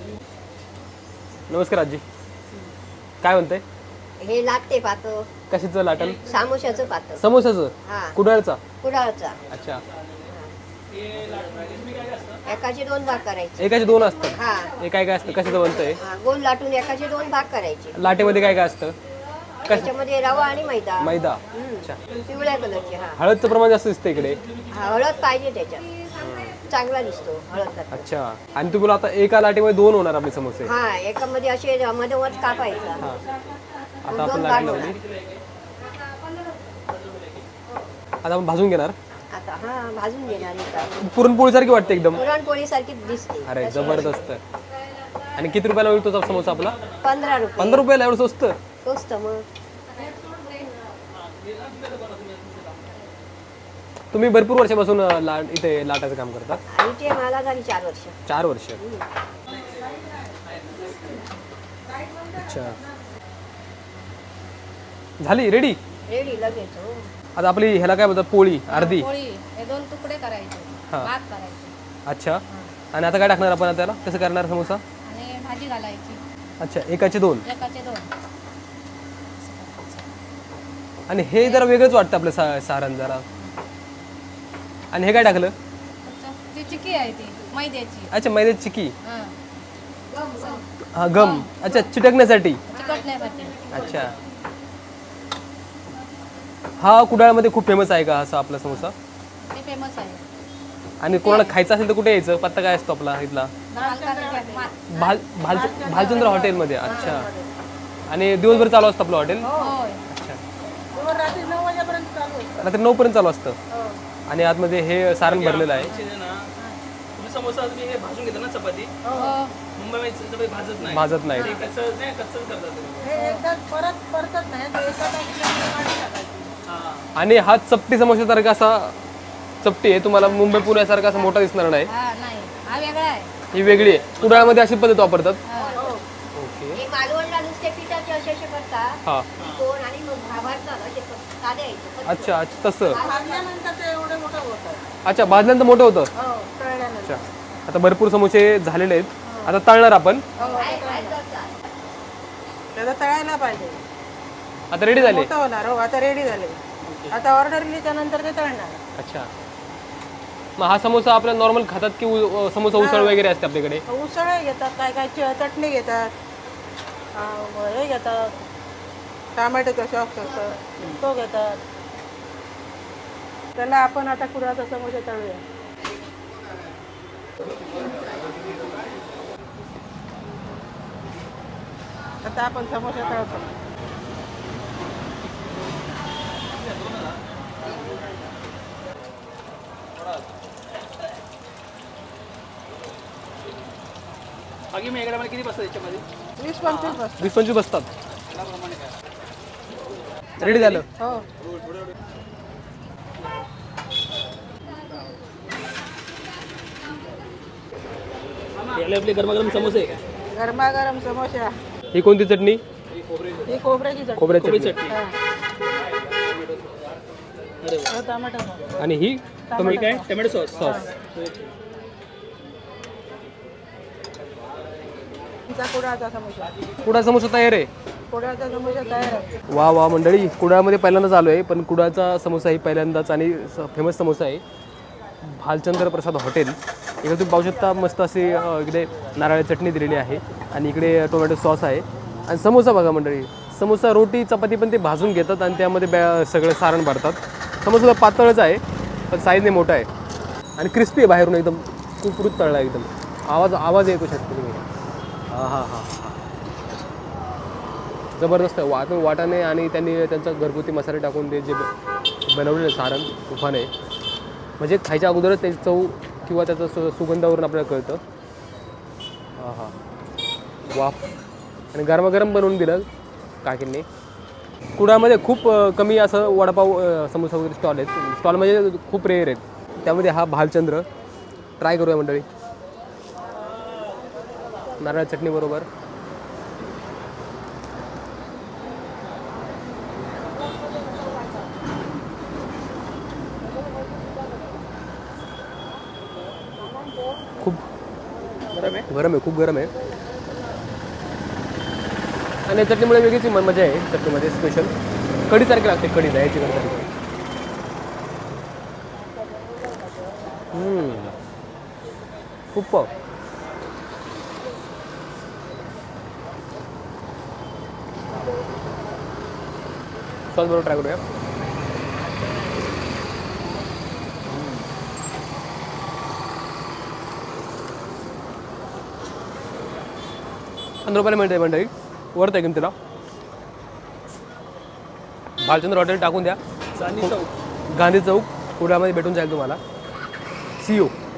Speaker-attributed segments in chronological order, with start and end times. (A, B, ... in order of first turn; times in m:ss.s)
0:01.5-0:02.0 A
0:03.2-0:03.6 A
0:04.2-0:05.3 B
0:05.5-0:06.2 A
0:06.2-0:07.2 B
0:07.2-0:08.6 A
0:07.8-0:08.2 B
0:08.8-0:09.4 B
0:09.5-0:09.8 A
0:10.3-0:10.5 B
0:11.0-0:12.4 C
0:12.4-0:14.7 B
0:13.6-0:16.0 A
0:16.0-0:18.0 B
0:17.9-0:19.0 A
0:19.6-0:23.2 B
0:19.7-0:19.9 A
0:21.0-0:22.0 A
0:23.2-0:24.4 A
0:24.7-0:25.9 B
0:26.1-0:26.6 A
0:26.6-0:28.1 B
0:27.9-0:30.7 A
0:30.6-0:33.1 B
0:34.0-0:35.0 B
0:34.0-0:35.0 A
0:34.4-0:35.0 C
0:35.8-0:36.8 D
0:38.2-0:39.0 A
0:39.3-0:41.0 B
0:41.0-0:42.2 A
0:42.1-0:44.2 B
0:43.4-0:44.4 A
0:45.3-0:46.8 A
0:47.0-0:47.9 B
0:47.6-0:48.6 A
0:48.8-0:49.4 B
0:50.0-0:50.8 E
0:51.2-0:52.8 C
0:54.1-0:56.6 A
0:56.7-0:58.2 B
0:58.3-0:58.8 A
0:58.8-0:59.1 B
0:59.5-1:01.1 E
1:00.5-1:01.1 C
1:01.8-1:02.9 E
1:02.3-1:02.8 A
1:05.2-1:05.8 A
1:06.1-1:07.1 B
1:07.4-1:09.1 A
1:08.7-1:11.7 D
1:12.0-1:12.4 A
1:12.9-1:14.8 A
1:15.0-1:16.2 D
1:16.6-1:17.4 A
1:17.4-1:18.1 D
1:19.4-1:20.1 D
1:21.1-1:23.2 A
1:21.4-1:21.7 D
1:24.9-1:25.5 A
1:26.0-1:28.1 D
1:28.1-1:28.9 A
1:29.0-1:29.3 D
1:30.1-1:30.6 B
1:30.3-1:31.8 D
1:30.9-1:32.6 A
1:32.7-1:33.9 D
1:32.7-1:33.0 B
1:33.6-1:33.9 B
1:33.7-1:34.1 A
1:36.8-1:38.9 A
1:39.4-1:40.2 D
1:41.0-1:43.5 A
1:41.1-1:41.5 D
1:43.7-1:44.7 E
1:43.7-1:45.2 D
1:44.9-1:47.3 A
1:45.4-1:47.5 E
1:46.8-1:47.2 D
1:48.1-1:49.5 A
1:49.4-1:49.8 E
1:49.4-1:50.0 D
1:50.1-1:50.4 A
1:50.9-1:52.7 E
1:52.6-1:53.6 A
1:53.7-1:54.0 E
1:54.3-1:55.9 A
1:55.2-1:56.5 C
1:57.1-1:59.0 C
1:59.0-1:59.4 E
1:59.1-1:59.5 D
1:59.7-2:03.1 C
2:00.8-2:01.6 A
2:03.0-2:06.5 E
2:03.1-2:03.4 D
2:06.7-2:07.0 C
2:07.1-2:08.9 A
2:09.6-2:11.9 A
2:10.2-2:10.4 D
2:11.9-2:13.3 D
2:13.5-2:15.4 A
2:14.0-2:14.5 C
2:15.5-2:15.8 D
2:15.5-2:16.0 B
2:15.8-2:16.0 E
2:16.3-2:16.8 A
2:16.7-2:23.5 B
2:22.0-2:23.0 A
2:23.0-2:24.8 E
2:25.0-2:26.1 A
2:26.2-2:27.2 E
2:27.0-2:30.3 A
2:30.4-2:31.2 E
2:30.4-2:31.1 D
2:30.4-2:31.5 B
2:32.7-2:33.8 E
2:34.7-2:35.3 A
2:34.9-2:36.6 E
2:37.1-2:38.8 E
2:39.0-2:39.3 A
2:40.6-2:43.8 A
2:42.7-2:43.2 E
2:43.9-2:46.1 E
2:47.1-2:48.4 E
2:49.3-2:51.6 E
2:53.5-2:55.4 E
3:02.2-3:03.5 E
3:14.7-3:16.0 C
3:16.4-3:17.3 E
3:17.2-3:17.9 A
3:18.3-3:18.9 C
3:20.4-3:20.8 A
3:20.4-3:20.8 C
3:21.0-3:21.2 E
3:28.7-3:30.0 C
3:30.3-3:31.5 E
3:31.9-3:32.6 A
3:33.4-3:34.4 E
3:34.2-3:34.8 A
3:34.4-3:35.0 C
3:34.9-3:35.2 E
3:37.6-3:37.9 C
3:37.9-3:38.6 E
3:38.8-3:39.8 A
3:39.5-3:40.1 E
3:39.6-3:41.5 C
3:40.6-3:40.8 A
3:45.5-3:46.5 E
3:46.8-3:47.7 A
3:48.1-3:49.3 E
3:49.5-3:54.4 A
3:55.2-4:09.9 A
4:10.6-4:14.6 A
4:15.3-4:16.2 A
4:18.2-4:21.7 A
4:22.2-4:23.7 A
4:24.6-4:28.0 A
4:29.4-4:29.7 A
4:30.7-4:31.0 A
4:31.7-4:32.8 A
4:33.4-4:33.8 A
4:34.8-4:40.8 A
4:41.6-4:42.2 A
4:44.8-4:45.7 A
4:58.5-4:58.9 C
4:58.9-4:59.7 A
5:02.4-5:04.7 A
5:05.3-5:06.9 A
5:10.5-5:11.2 A
5:12.5-5:12.9 A
5:20.3-5:21.0 A
5:30.8-5:32.7 A
5:35.4-5:36.4 A
5:36.7-5:37.3 C
5:37.7-5:39.6 A
5:40.6-5:40.9 A